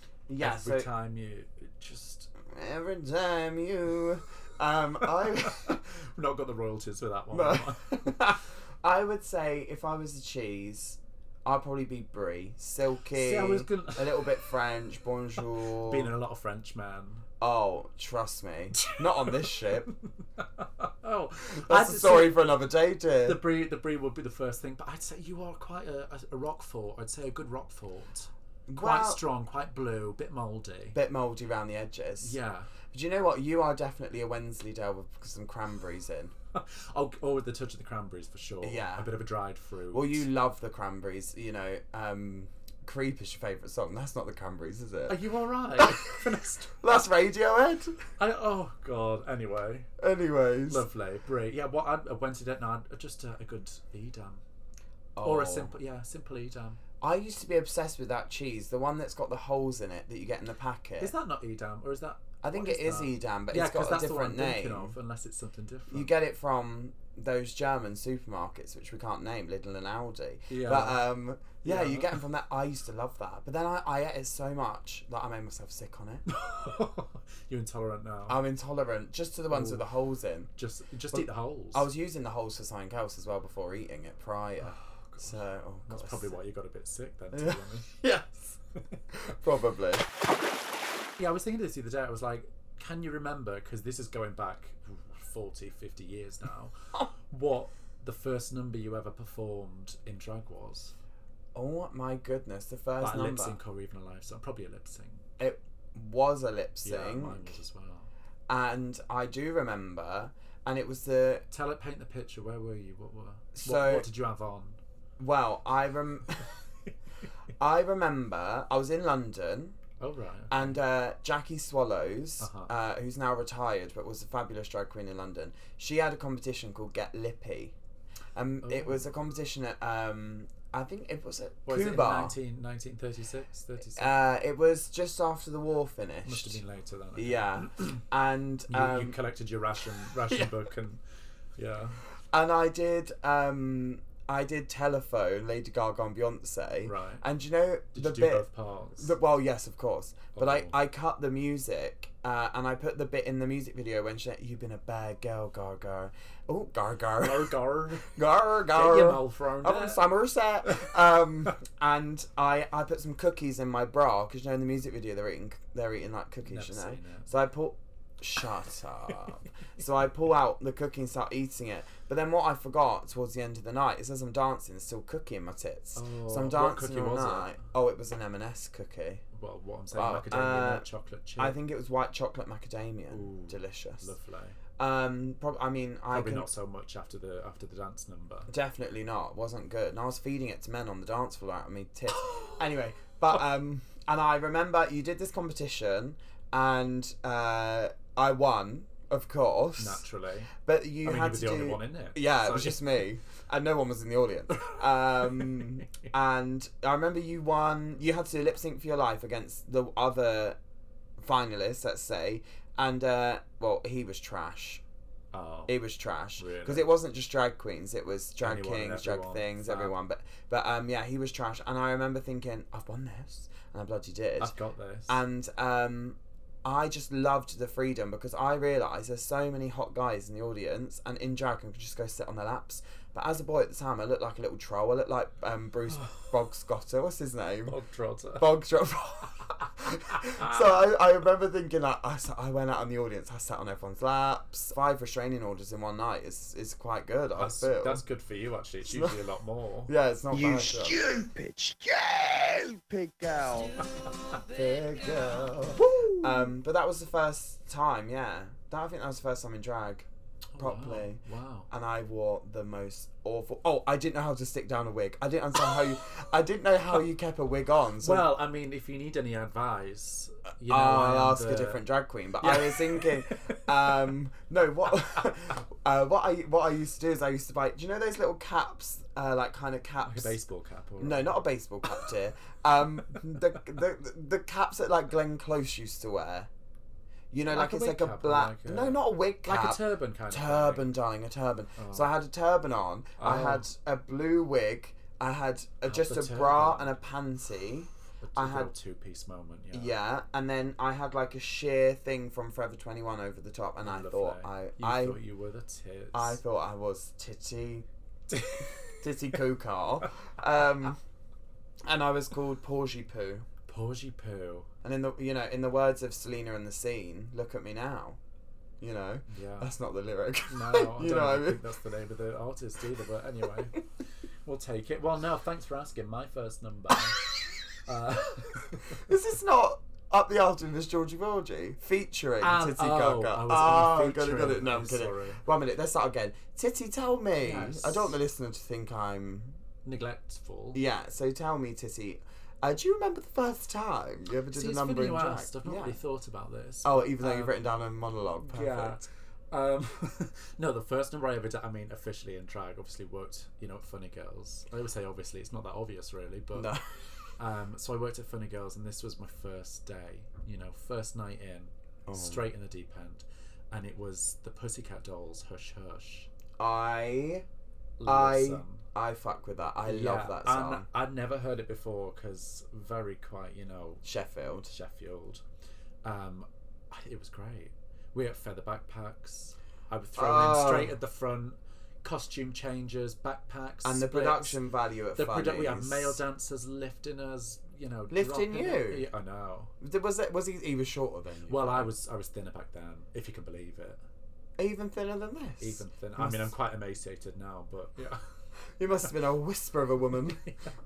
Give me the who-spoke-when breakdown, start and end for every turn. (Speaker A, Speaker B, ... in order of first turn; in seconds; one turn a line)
Speaker A: 0.3-0.9
Speaker B: 0.4-2.3
Speaker A: 2.5-5.8
Speaker B: 5.0-8.2
Speaker A: 7.3-16.1
Speaker B: 13.1-14.5
Speaker B: 15.4-17.2
Speaker A: 17.4-19.9
Speaker B: 18.7-22.5
Speaker A: 21.5-23.4
Speaker B: 23.2-31.0
Speaker A: 28.7-29.2
Speaker A: 30.9-32.3
Speaker B: 32.2-32.7
Speaker A: 32.9-36.3
Speaker B: 36.5-40.3
Speaker A: 38.6-39.1
Speaker A: 39.9-45.2
Speaker B: 45.1-46.8
Speaker A: 45.8-46.1
Speaker A: 46.8-48.1
Speaker B: 48.2-49.9
Speaker A: 50.0-50.8
Speaker B: 50.7-54.4
Speaker A: 55.1-55.7
Speaker B: 55.2-56.8
Speaker A: 57.0-61.1
Speaker B: 61.0-66.1
Speaker A: 62.4-64.9
Speaker A: 65.9-76.2
Speaker B: 70.5-71.0
Speaker B: 71.6-72.2
Speaker B: 76.2-78.4
Speaker A: 78.3-80.5
Speaker B: 79.5-79.9
Speaker B: 80.5-81.9
Speaker A: 81.1-86.4
Speaker B: 84.6-87.9
Speaker A: 87.3-88.5
Speaker A: 89.1-90.0
Speaker B: 91.2-100.9
Speaker A: 101.5-103.6
Speaker B: 103.0-105.2
Speaker A: 105.4-107.5
Speaker B: 106.8-108.1
Speaker A: 108.5-111.5
Speaker B: 111.5-114.8
Speaker A: 113.5-114.1
Speaker A: 115.2-116.5
Speaker A: 117.6-119.8
Speaker B: 120.0-120.8
Speaker A: 120.5-127.7
Speaker B: 122.4-122.7
Speaker A: 128.3-132.3
Speaker B: 128.6-128.9
Speaker B: 131.7-134.1
Speaker A: 133.9-136.6
Speaker B: 136.2-138.0
Speaker A: 137.2-139.1
Speaker B: 138.7-141.0
Speaker B: 141.6-142.0
Speaker A: 142.3-179.2
Speaker B: 146.8-147.2
Speaker B: 147.9-149.1
Speaker B: 150.3-150.8
Speaker B: 157.2-161.0
Speaker B: 166.5-167.3
Speaker B: 175.9-177.5
Speaker B: 179.3-181.6
Speaker A: 179.9-180.8
Speaker A: 181.4-184.1
Speaker B: 183.1-184.6
Speaker A: 184.8-186.5
Speaker B: 186.1-188.5
Speaker A: 188.5-200.0
Speaker B: 199.8-200.5
Speaker A: 200.6-210.6
Speaker B: 201.0-202.9
Speaker B: 205.4-205.7
Speaker A: 211.2-214.8
Speaker B: 215.3-215.8
Speaker A: 215.7-224.5
Speaker B: 216.4-216.9
Speaker B: 218.4-219.9
Speaker B: 224.4-225.2
Speaker A: 225.1-237.8
Speaker B: 235.9-236.2
Speaker B: 237.7-238.5
Speaker A: 238.4-248.0
Speaker B: 240.1-240.7
Speaker B: 247.3-249.9
Speaker A: 248.9-249.2
Speaker A: 249.9-251.0
Speaker C: 250.3-253.8
Speaker A: 254.5-268.3
Speaker C: 255.1-255.4
Speaker B: 260.5-261.7
Speaker B: 268.0-271.8
Speaker A: 270.7-280.4
Speaker B: 272.4-274.1
Speaker B: 280.0-281.4
Speaker A: 281.0-286.5
Speaker A: 287.3-298.7
Speaker B: 287.5-290.9
Speaker B: 291.8-292.1
Speaker B: 293.2-293.7
Speaker B: 295.9-297.0
Speaker B: 298.2-299.9
Speaker A: 299.7-305.2
Speaker B: 303.8-306.4
Speaker A: 306.1-307.9
Speaker B: 308.3-309.0
Speaker A: 308.9-311.0
Speaker A: 311.8-313.4
Speaker B: 313.7-314.7
Speaker A: 314.8-318.2
Speaker A: 318.8-321.6
Speaker B: 319.3-319.7
Speaker B: 320.5-323.9
Speaker B: 324.4-329.0
Speaker A: 328.8-339.6
Speaker B: 332.4-335.4
Speaker B: 337.4-338.1
Speaker B: 339.8-340.8
Speaker A: 340.7-346.0
Speaker B: 344.5-347.5
Speaker A: 346.8-349.0
Speaker B: 348.4-356.7
Speaker A: 356.5-356.9
Speaker B: 357.4-366.3
Speaker A: 362.1-362.5
Speaker A: 366.6-367.4
Speaker B: 368.0-368.8
Speaker A: 368.0-370.9
Speaker B: 369.9-374.0
Speaker A: 374.0-374.7
Speaker B: 374.7-375.4
Speaker B: 376.0-384.6
Speaker A: 380.1-380.9
Speaker A: 383.8-386.2
Speaker B: 385.1-389.7
Speaker A: 388.1-389.1
Speaker A: 389.8-391.9
Speaker B: 391.5-394.0
Speaker A: 394.6-396.5
Speaker B: 395.6-398.2
Speaker A: 398.8-400.5